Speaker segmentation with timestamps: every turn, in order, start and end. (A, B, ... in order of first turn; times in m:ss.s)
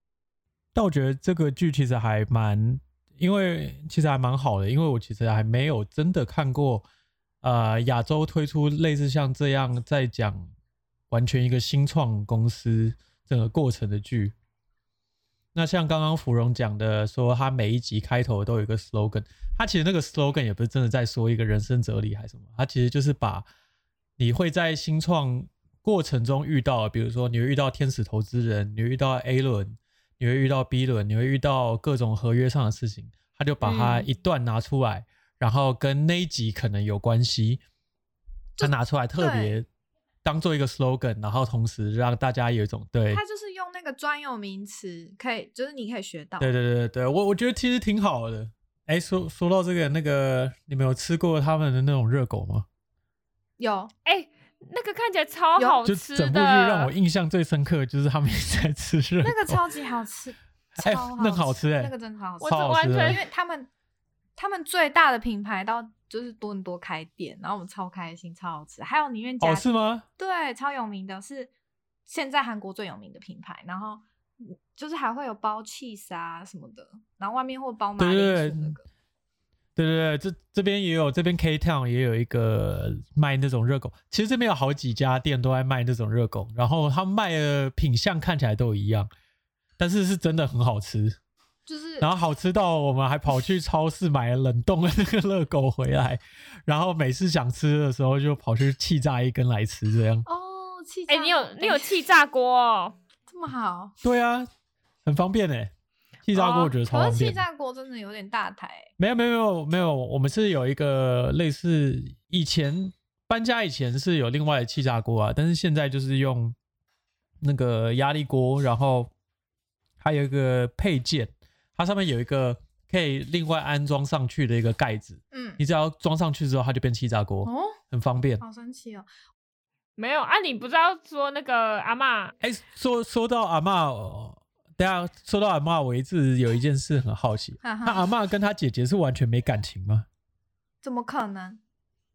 0:00.8-0:06.8 A
0:07.4-0:10.5 A
0:11.1-0:14.3 A
0:15.5-0:23.4 A
0:24.2-0:37.6 A
0:33.6-0:34.0 B
0:38.6-0:39.6 B
0:38.6-0:39.6 A
0:40.2-0:43.2 A
0:43.1-0:46.5 B
0:46.4-0:52.6 A
0:53.6-0:53.9 B
0:54.1-0:56.9 C
0:55.8-0:59.6 A
0:59.2-1:03.7 B
1:00.8-1:03.2 A
1:02.4-1:03.2 C
1:04.4-1:09.7 B
1:09.4-1:10.1 A
1:10.2-1:11.5 B
1:12.1-1:18.8 B
1:18.0-1:18.8 A
1:19.8-1:29.1 A
1:29.8-1:31.2 A
1:31.6-1:32.1 B
1:32.0-1:40.2 A
1:40.2-1:42.1 B
1:41.1-1:43.0 C
1:43.3-1:43.9 B
1:44.0-1:44.5 A
1:45.0-1:45.7 A
1:46.2-1:47.4 A
1:46.3-1:48.9 B
1:49.0-1:56.6 A
1:57.4-1:59.1 A
2:00.0-2:08.4 A
2:05.3-2:05.6 B
2:07.4-2:07.8 B
2:08.4-2:09.1 B
2:10.0-2:12.3 C
2:12.4-2:20.1 A
2:17.6-2:18.1 B
2:20.8-2:21.6 B